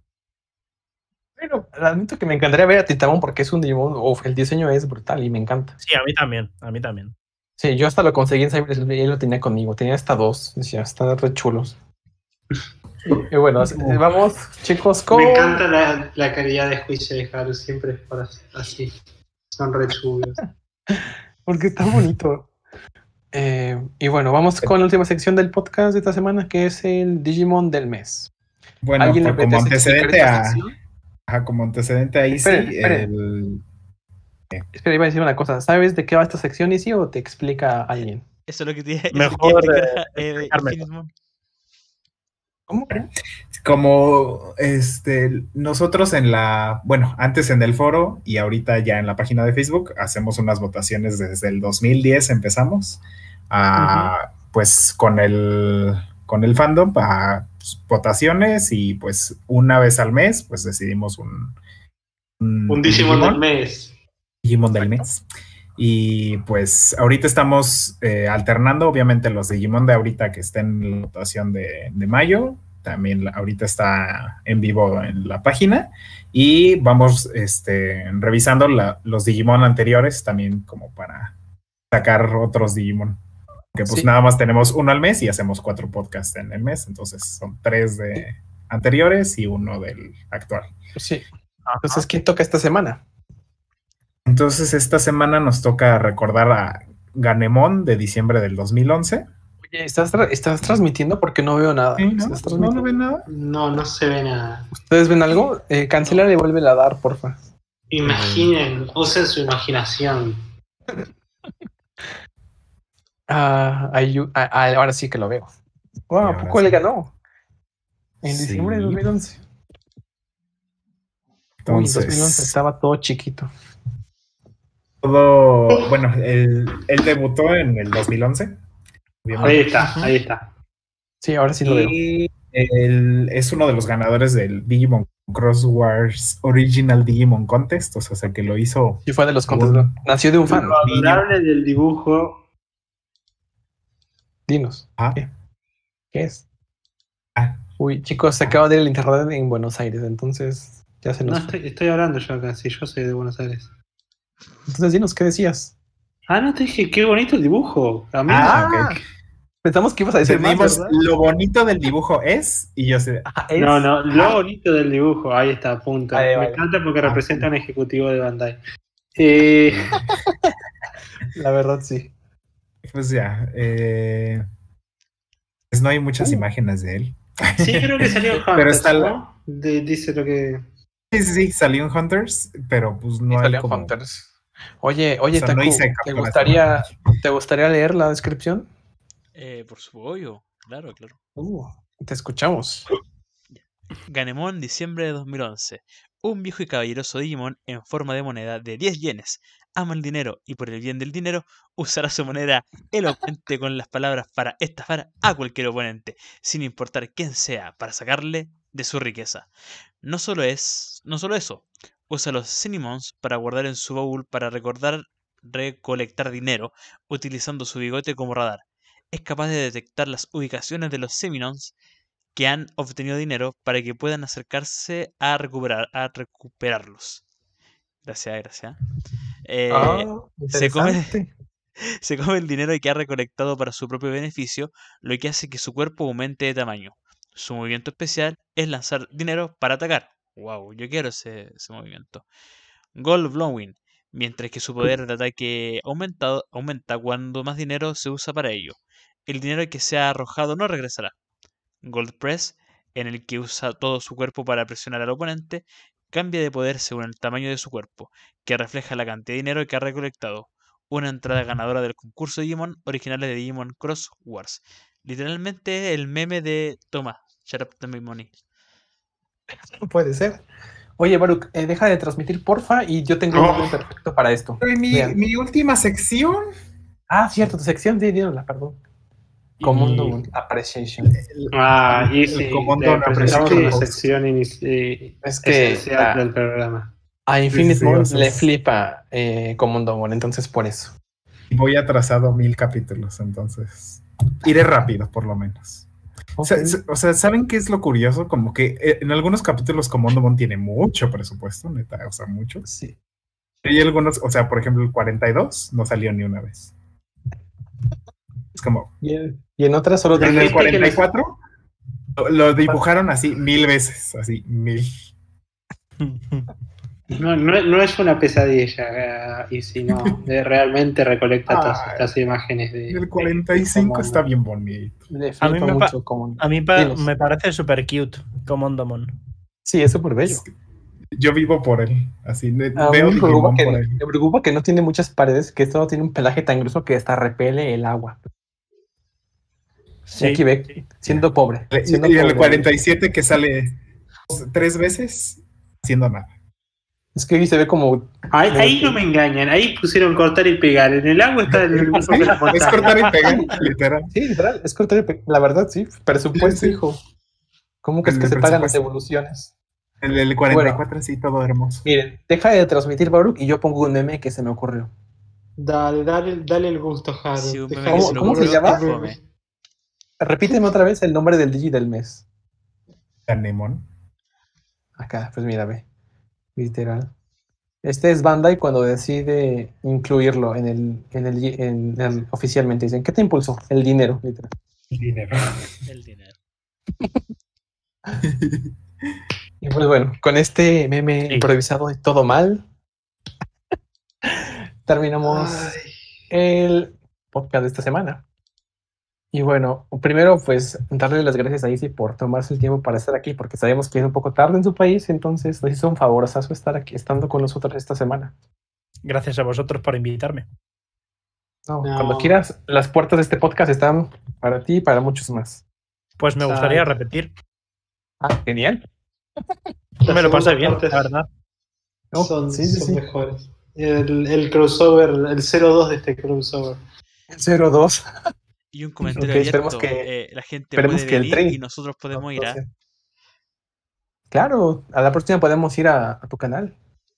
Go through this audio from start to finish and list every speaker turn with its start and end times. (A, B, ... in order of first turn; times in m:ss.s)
0:01.4-0:05.8 A
0:05.8-0:07.1 B
0:07.6-0:11.8 A
0:13.0-0:15.6 A
0:13.7-0:14.0 C
0:15.1-0:19.0 D
0:19.5-0:20.4 D
0:20.9-0:22.5 A
0:23.3-0:28.3 A
0:28.8-0:30.7 C
0:29.0-0:30.8 A
0:31.3-0:33.6 C
0:32.3-0:33.1 A
0:34.7-0:38.2 A
0:37.9-0:41.1 E
0:39.1-0:40.8 B
0:42.7-0:43.1 A
0:42.9-1:01.6 C
0:53.8-0:54.1 D
1:02.4-1:03.4 C
1:02.7-1:03.9 D
1:04.4-1:05.2 C
1:04.8-1:05.1 A
1:05.8-1:21.4 C
1:21.9-1:23.2 C
1:23.7-1:30.7 C
1:31.0-1:31.3 A
1:31.7-1:32.0 B
1:31.8-1:33.0 A
1:34.3-1:39.3 C
1:39.6-1:42.9 A
1:42.0-1:43.3 C
1:43.3-1:44.7 D
1:44.7-1:47.4 A
1:47.9-1:50.4 D
1:48.0-1:48.5 C
1:53.3-1:55.5 A
1:56.1-1:57.1 A
1:56.2-1:56.8 C
1:58.2-1:59.4 A
1:58.3-1:59.0 C
2:01.6-2:02.6 C
2:01.7-2:03.5 A
2:05.0-2:08.6 C
2:09.2-2:10.0 C
2:09.4-2:10.1 A
2:09.4-2:10.5 D
2:11.2-2:12.0 A
2:11.6-2:20.0 C
2:19.0-2:20.8 A
2:20.5-2:22.4 D
2:20.8-2:21.3 C
2:24.5-2:25.3 A
2:26.1-2:26.4 A
2:27.4-2:27.6 C
2:27.8-2:31.6 A
2:31.3-2:33.7 D
2:34.7-2:35.7 A
2:36.3-2:39.0 D
2:38.3-2:39.0 C
2:38.4-2:39.0 A
2:39.6-2:41.0 A
2:40.2-2:43.3 C
2:40.5-2:41.0 D
2:43.3-2:44.4 A
2:43.6-2:48.6 D
2:46.1-2:46.6 A
2:47.0-2:47.5 C
2:49.2-2:50.0 D
2:49.7-2:50.1 C
2:50.3-2:50.5 A
2:51.3-2:52.1 A
2:52.9-2:54.4 C
2:55.7-2:59.1 C
2:57.6-3:00.6 D
3:01.1-3:03.9 C
3:03.3-3:04.3 A
3:04.8-3:08.7 A
3:05.3-3:06.8 C
3:09.4-3:11.2 E
3:11.4-3:12.9 A
3:13.5-3:29.5 E
3:30.0-3:41.7 E
3:42.4-3:47.2 E
3:48.0-3:48.8 E
3:49.4-3:51.2 E
3:49.7-3:51.3 A
3:51.8-4:02.2 E
4:02.9-4:11.2 E
4:11.8-4:28.4 E
4:29.5-4:30.4 A
4:31.0-4:35.2 A
4:33.3-4:33.8 D
4:34.6-4:36.4 C
4:37.1-4:38.8 A
4:39.6-4:40.2 C
4:39.6-4:41.2 A
4:41.1-4:44.1 C
4:41.5-4:46.9 D
4:43.2-4:43.8 A
4:45.2-4:46.2 A
4:47.3-4:51.0 A
4:47.5-4:48.5 C
4:51.5-4:55.9 C
4:56.4-4:56.8 A
4:56.4-5:02.7 C
5:02.7-5:03.0 A
5:03.6-5:06.7 C
5:08.6-5:08.9 C
5:09.0-5:10.9 A
5:10.1-5:11.0 D
5:10.2-5:11.4 C
5:12.2-5:14.9 C
5:16.0-5:16.5 B
5:17.1-5:24.2 D
5:21.5-5:22.1 C
5:22.9-5:25.0 C
5:25.1-5:27.1 A
5:25.4-5:29.1 B
5:29.6-5:30.4 A
5:30.2-5:30.5 C
5:31.2-5:34.0 C
5:32.8-5:38.2 A
5:40.1-5:40.4 B
5:40.2-5:42.7 A
5:41.7-5:43.8 C
5:44.3-5:46.3 C
5:47.2-5:49.0 A
5:48.3-5:53.4 D
5:51.5-5:54.1 C
5:53.2-5:53.5 A
5:54.1-5:57.0 A
5:56.4-5:56.8 C
5:57.8-5:59.5 A
5:58.0-5:58.8 C
6:00.0-6:01.8 C
6:00.5-6:00.8 A
6:01.8-6:04.9 A
6:05.6-6:09.2 D
6:07.4-6:09.2 E
6:07.9-6:08.8 A
6:10.2-6:12.2 A
6:13.3-6:13.9 C
6:15.0-6:15.8 A
6:16.6-6:17.1 A
6:17.8-6:24.5 A
6:24.9-6:25.8 C
6:25.8-6:26.4 E
6:28.2-6:28.7 C
6:29.6-6:32.6 A
6:34.2-6:35.8 A
6:35.2-6:36.0 D
6:36.3-6:38.2 A
6:39.3-6:48.3 A
6:49.0-6:50.5 B
6:51.7-6:55.6 A
6:51.8-6:52.4 D
6:56.2-6:57.3 B
6:56.4-6:57.0 D
6:58.2-6:58.9 A
7:00.0-7:01.1 D
7:00.1-7:01.3 B
7:02.1-7:03.0 A
7:02.2-7:06.8 D
7:07.3-7:08.1 A
7:08.7-7:12.6 E
7:09.0-7:10.1 A
7:10.8-7:11.6 A
7:12.1-7:12.7 A
7:14.3-7:16.7 A